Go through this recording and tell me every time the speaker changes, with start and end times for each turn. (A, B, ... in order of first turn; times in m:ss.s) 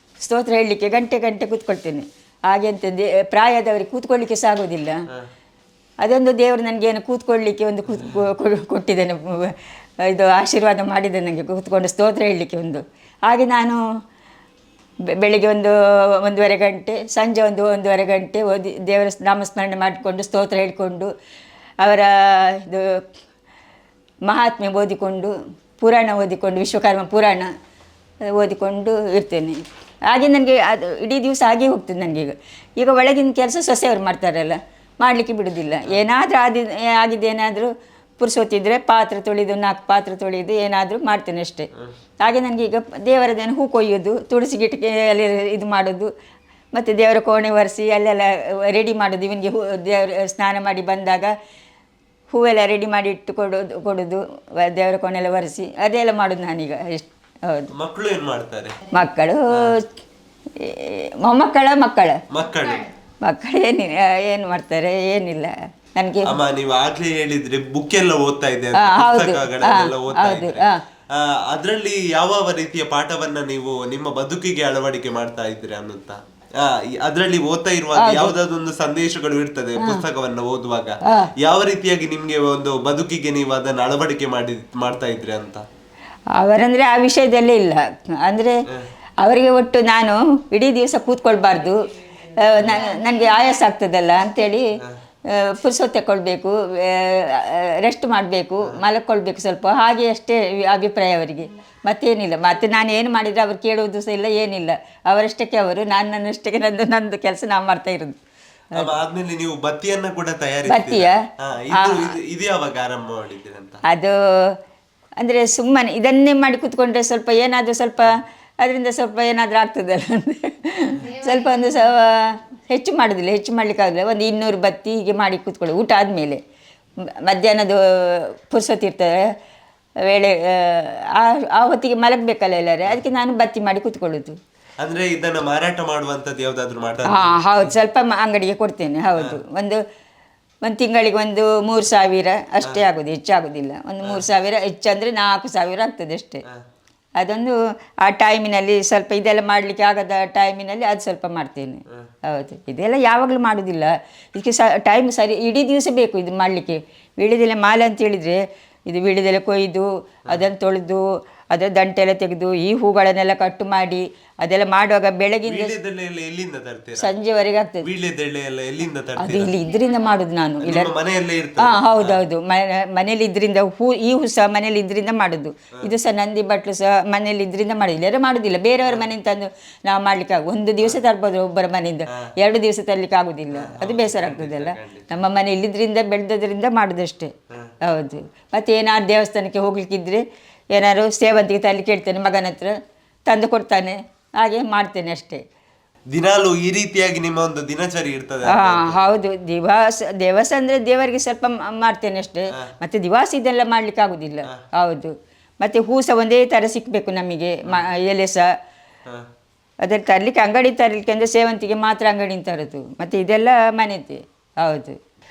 0:00.2-0:05.0 A
0:06.0-0:13.8 A
0:15.0-0:21.1 A
0:21.8-0:23.0 A
0:24.2-0:27.5 A
0:28.2-0:41.7 A
0:42.2-0:46.1 A
0:46.7-0:51.3 A
0:52.3-0:57.7 A
0:57.7-0:58.8 B
0:58.9-0:59.9 A
1:00.6-1:02.2 A
1:02.3-1:02.9 B
1:03.2-1:06.4 A
1:06.2-1:25.6 B
1:08.8-1:10.8 A
1:17.9-1:18.3 A
1:19.8-1:20.0 A
1:21.0-1:21.3 A
1:26.3-1:28.6 A
1:29.2-1:48.2 A
1:48.7-1:53.8 B
1:50.7-1:52.1 A
1:53.9-1:54.6 A
1:55.2-2:06.4 A
2:07.2-2:09.3 A
2:10.0-2:14.4 A
2:14.8-2:17.7 B
2:17.1-2:19.8 A
2:20.6-2:26.4 A
2:27.2-2:45.8 A
2:45.4-2:47.1 B
2:47.0-2:47.9 A
2:47.8-2:49.6 B
2:49.2-2:50.9 A
2:50.6-2:52.2 B
2:51.6-3:12.7 A
3:03.5-3:05.1 B
3:07.5-3:07.8 B
3:13.3-3:15.4 A
3:16.1-3:19.0 B
3:18.5-3:28.5 A
3:29.8-3:35.0 A